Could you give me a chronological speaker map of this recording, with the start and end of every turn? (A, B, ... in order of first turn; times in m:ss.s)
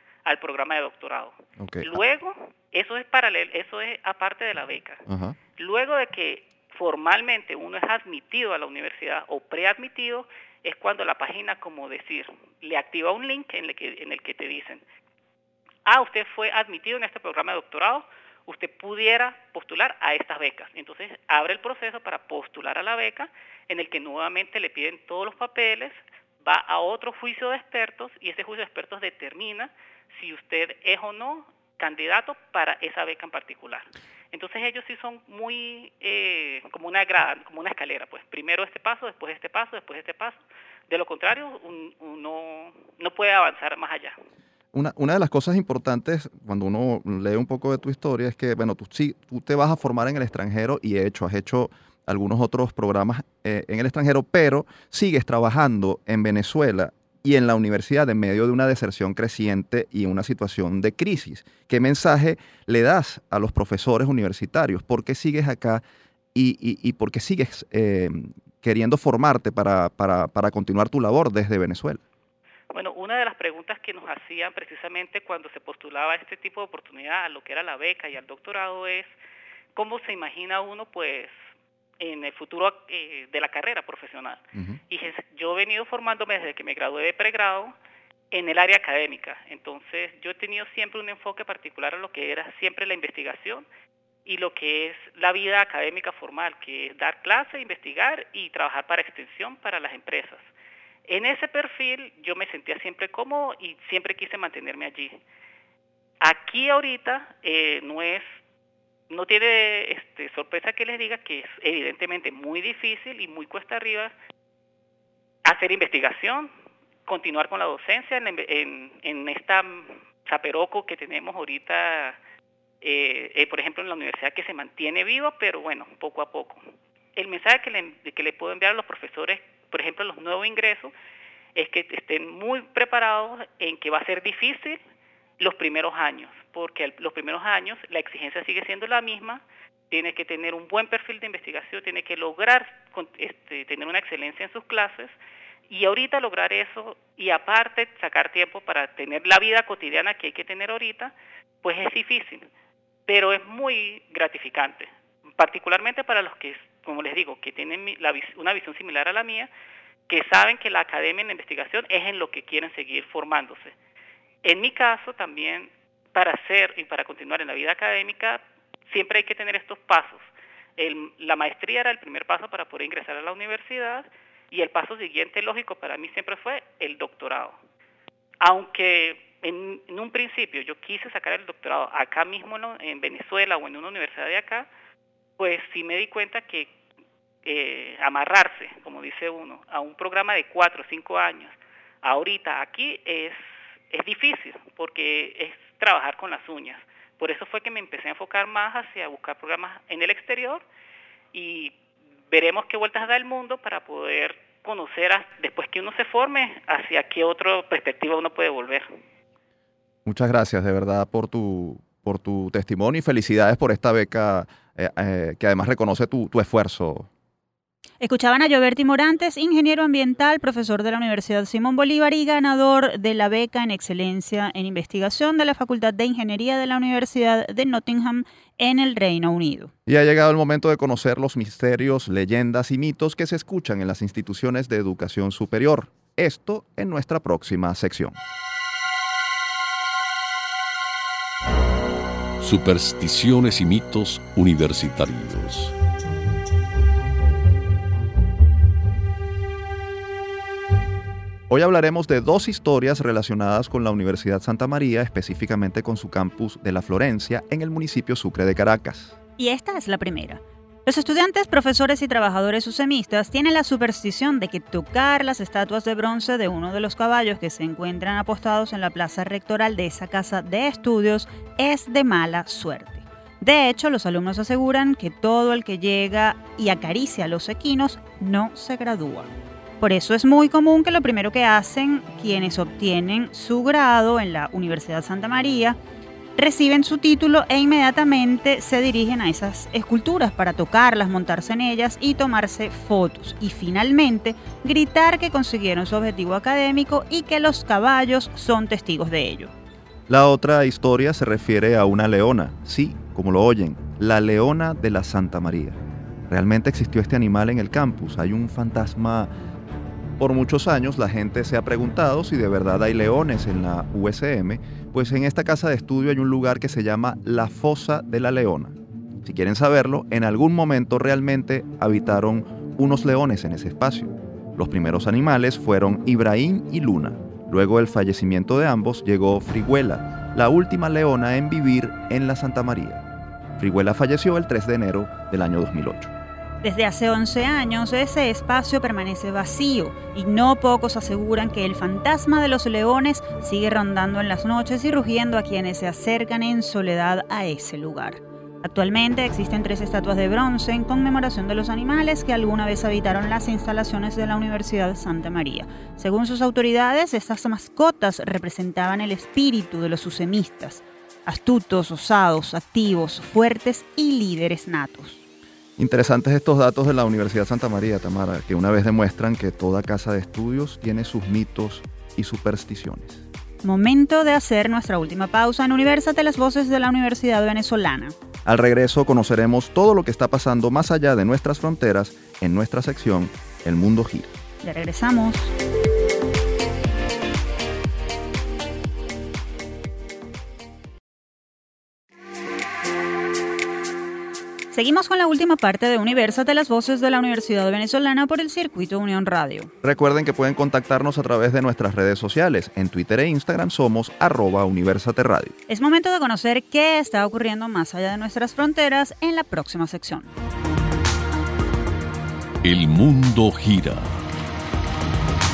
0:00.2-0:05.0 A
0:01.6-0:02.0 B
0:05.1-0:05.4 B
0:05.6-0:14.8 A
0:15.8-0:44.2 A
0:44.7-1:05.8 B
1:06.3-1:12.0 B
1:12.7-1:19.1 A
1:19.7-1:21.3 A
1:22.0-1:27.7 A
1:28.3-1:33.6 A
1:34.2-1:40.5 A
1:41.1-1:45.2 A
1:46.2-1:48.4 A
1:49.1-1:54.1 A
1:55.4-1:56.5 A
1:57.0-2:02.2 A
2:02.8-2:10.9 A
2:11.5-2:14.8 A
2:15.4-2:25.1 A
2:25.7-2:32.5 A
2:33.1-2:39.5 A
2:40.1-2:43.7 A
2:44.4-2:57.6 A
2:58.4-3:04.7 A
3:05.4-3:06.7 A
3:07.4-3:20.6 A
3:21.3-3:21.8 A
3:22.3-3:28.8 A
3:30.0-3:37.1 B
3:38.0-3:49.7 C
3:49.8-3:58.2 B
4:02.4-4:05.7 D
4:11.5-4:19.2 B
4:19.4-4:45.8 C
4:46.4-4:59.5 C
5:00.1-5:09.3 B
5:10.2-5:33.0 B
5:33.6-5:36.1 B
5:36.6-6:05.2 C
6:05.8-6:13.2 B
6:13.6-6:18.1 C
6:18.4-6:24.3 B
6:24.6-6:25.5 C
6:34.7-6:39.7 C
6:39.8-6:45.6 B
6:45.7-6:50.3 C
6:52.6-6:54.1 D